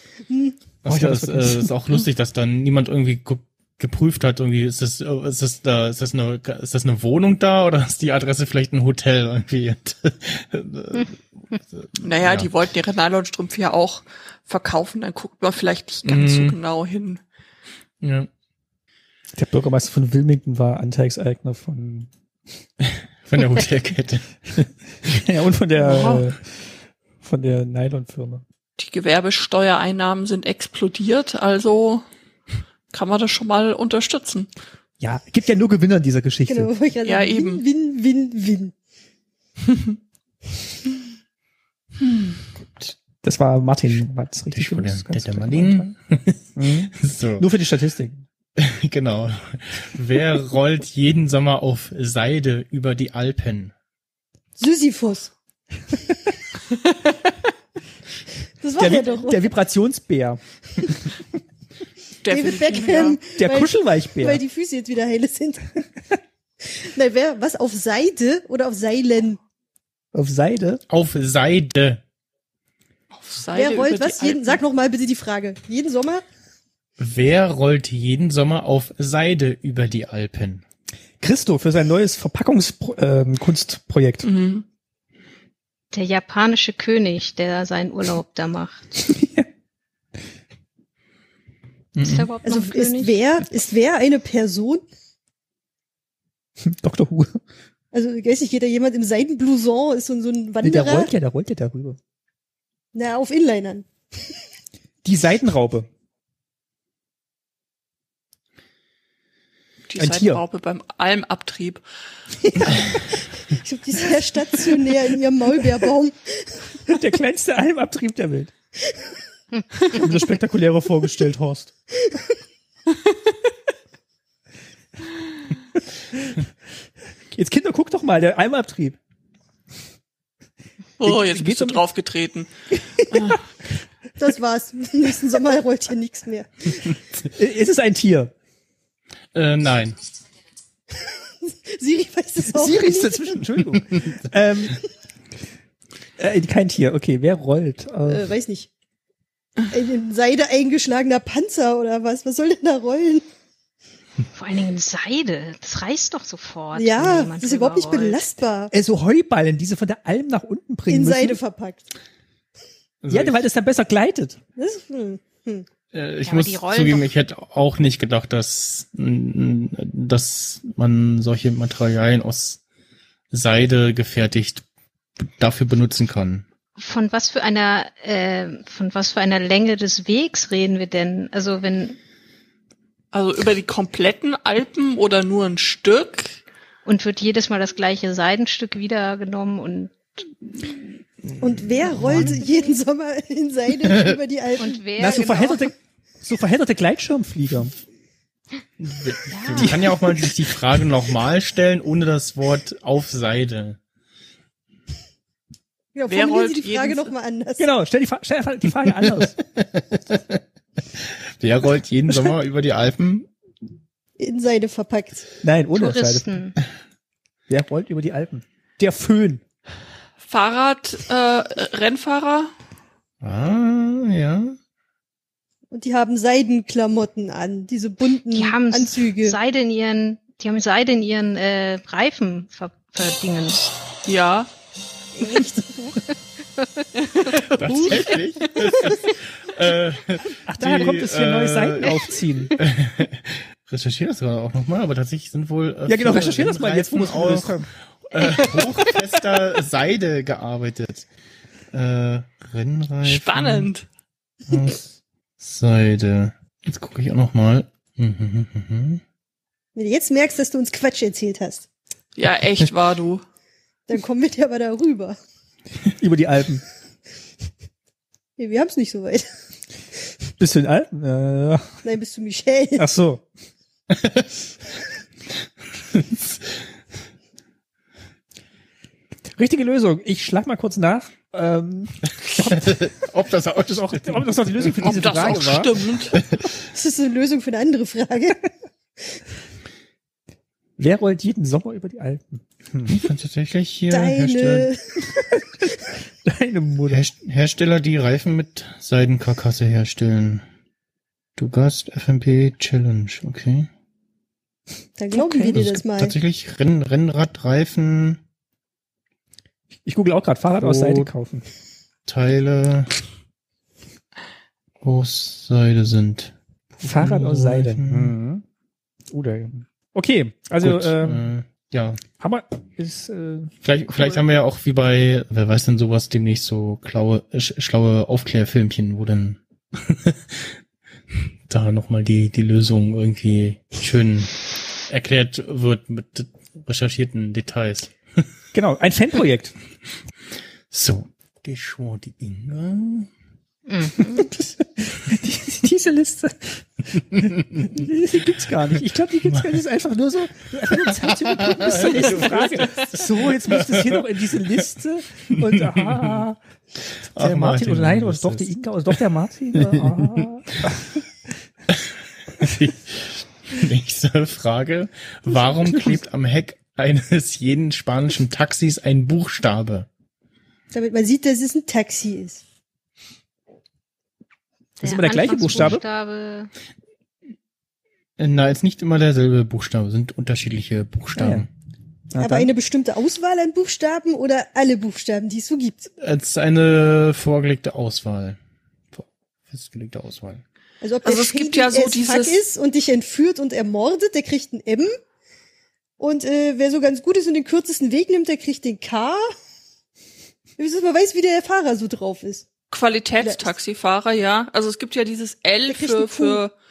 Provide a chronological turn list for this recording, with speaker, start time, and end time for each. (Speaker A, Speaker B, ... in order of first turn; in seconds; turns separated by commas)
Speaker A: 0.3-0.6, Speaker B: 0.8-12.5, Speaker C: 0.9-1.7, Speaker D: 12.0-17.2, Speaker B: 16.1-16.6, Speaker B: 18.0-18.3, Speaker C: 19.4-22.1, Speaker B: 22.9-24.7, Speaker C: 25.1-26.6, Speaker D: 25.8-26.2, Speaker C: 27.2-28.4, Speaker D: 28.8-32.0, Speaker D: 32.9-34.5, Speaker C: 35.0-36.7, Speaker A: 36.5-38.7, Speaker D: 37.0-37.6, Speaker C: 43.2-46.0, Speaker B: 44.5-47.5, Speaker C: 46.6-48.3, Speaker B: 48.6-53.7, Speaker A: 54.6-55.3, Speaker A: 58.6-59.5, Speaker C: 58.8-60.4, Speaker D: 62.2-63.2, Speaker A: 62.3-65.8, Speaker C: 63.4-64.4, Speaker A: 66.6-69.4, Speaker C: 70.1-70.8, Speaker B: 70.9-72.0, Speaker D: 73.1-74.6, Speaker A: 73.5-76.2, Speaker B: 77.0-80.6, Speaker C: 81.2-84.3, Speaker D: 84.2-84.7, Speaker E: 85.9-89.0, Speaker C: 89.0-89.5, Speaker B: 92.0-92.3, Speaker E: 92.0-93.1, Speaker A: 92.4-94.8, Speaker C: 96.6-97.4, Speaker A: 97.9-101.1, Speaker C: 100.6-102.0, Speaker A: 102.9-103.9, Speaker C: 105.0-105.9, Speaker D: 109.9-111.8, Speaker C: 110.0-110.4, Speaker A: 112.6-112.9, Speaker A: 113.5-117.0, Speaker C: 116.9-118.5, Speaker C: 119.9-121.7, Speaker C: 127.3-129.0, Speaker D: 131.0-133.4, Speaker C: 131.0-131.8, Speaker C: 133.0-133.3, Speaker A: 134.2-136.9, Speaker C: 137.3-138.3, Speaker B: 139.3-140.0, Speaker A: 141.0-143.4, Speaker C: 142.4-144.8, Speaker B: 143.9-144.2, Speaker C: 146.2-148.3, Speaker A: 148.1-148.7, Speaker A: 149.7-153.2, Speaker E: 154.3-158.2, Speaker A: 156.7-158.7, Speaker C: 158.7-161.4, Speaker A: 160.9-161.9, Speaker B: 163.0-163.4, Speaker C: 163.1-164.4, Speaker A: 164.6-165.7, Speaker B: 165.9-172.6, Speaker E: 166.2-167.1, Speaker B: 173.3-174.7, Speaker B: 175.2-176.5, Speaker E: 176.8-182.0, Speaker D: 183.1-186.4, Speaker E: 186.9-190.2, Speaker A: 191.4-194.8, Speaker E: 191.8-192.8, Speaker C: 192.0-192.4, Speaker B: 193.8-194.2, Speaker E: 194.6-195.7, Speaker C: 195.0-197.8, Speaker B: 198.8-203.8, Speaker E: 199.3-199.9, Speaker C: 199.6-199.9, Speaker A: 205.9-207.7, Speaker D: 206.1-207.1, Speaker C: 207.6-209.4, Speaker B: 208.9-210.4, Speaker B: 210.9-213.3, Speaker A: 214.2-215.3, Speaker C: 215.4-216.5, Speaker E: 215.8-216.6, Speaker C: 217.5-219.4, Speaker D: 220.3-222.5, Speaker B: 223.2-224.6, Speaker A: 225.7-229.4, Speaker E: 228.3-233.7, Speaker D: 234.1-234.5, Speaker A: 235.2-235.8, Speaker E: 235.4-236.9, Speaker D: 237.2-238.5, Speaker B: 237.5-251.1, Speaker C: 240.5-242.6, Speaker C: 245.9-247.7, Speaker B: 251.7-253.7, Speaker D: 253.0-253.8, Speaker B: 254.5-254.9, Speaker B: 255.4-259.0, Speaker A: 259.8-261.6, Speaker D: 262.2-263.2, Speaker A: 263.9-265.2, Speaker C: 266.0-266.6, Speaker A: 268.4-269.3, Speaker C: 270.4-271.7, Speaker A: 271.8-272.9, Speaker C: 272.8-273.2, Speaker B: 273.9-274.3, Speaker B: 275.9-276.5, Speaker C: 279.3-282.9, Speaker B: 282.4-286.5, Speaker C: 283.6-285.7, Speaker D: 284.8-286.2, Speaker A: 286.6-288.5, Speaker C: 290.8-293.1, Speaker B: 292.9-294.7, Speaker A: 293.9-294.8, Speaker C: 295.1-295.7, Speaker C: 296.2-297.1, Speaker B: 296.9-300.4, Speaker B: 301.4-303.7, Speaker A: 305.0-306.1, Speaker D: 305.1-305.5, Speaker B: 305.5-308.2, Speaker C: 309.9-311.5, Speaker B: 310.6-311.1, Speaker B: 312.1-312.9, Speaker B: 314.8-318.2, Speaker C: 316.8-318.4, Speaker C: 319.1-321.3, Speaker B: 320.6-322.0, Speaker C: 322.2-323.5, Speaker B: 323.6-330.5, Speaker B: 331.5-334.3, Speaker B: 334.9-337.9, Speaker C: 338.5-339.6, Speaker B: 340.7-343.1, Speaker E: 343.7-344.3, Speaker C: 344.1-346.7, Speaker B: 347.2-347.9, Speaker C: 347.2-356.4, Speaker B: 349.3-349.6, Speaker B: 350.7-354.7, Speaker B: 355.3-356.2, Speaker B: 357.1-358.9, Speaker C: 357.1-361.0, Speaker B: 359.5-360.3, Speaker B: 361.7-369.9, Speaker C: 365.6-366.0, Speaker A: 370.7-372.4, Speaker C: 374.8-375.8, Speaker E: 374.8-376.5, Speaker B: 378.2-381.5, Speaker C: 381.2-381.5, Speaker C: 382.1-382.5, Speaker A: 382.2-385.9, Speaker B: 386.0-388.4, Speaker B: 388.9-390.4, Speaker A: 390.8-395.0, Speaker D: 391.1-392.4, Speaker A: 396.0-399.2, Speaker A: 400.6-402.5, Speaker D: 402.7-406.5, Speaker A: 403.2-403.5, Speaker A: 405.7-406.4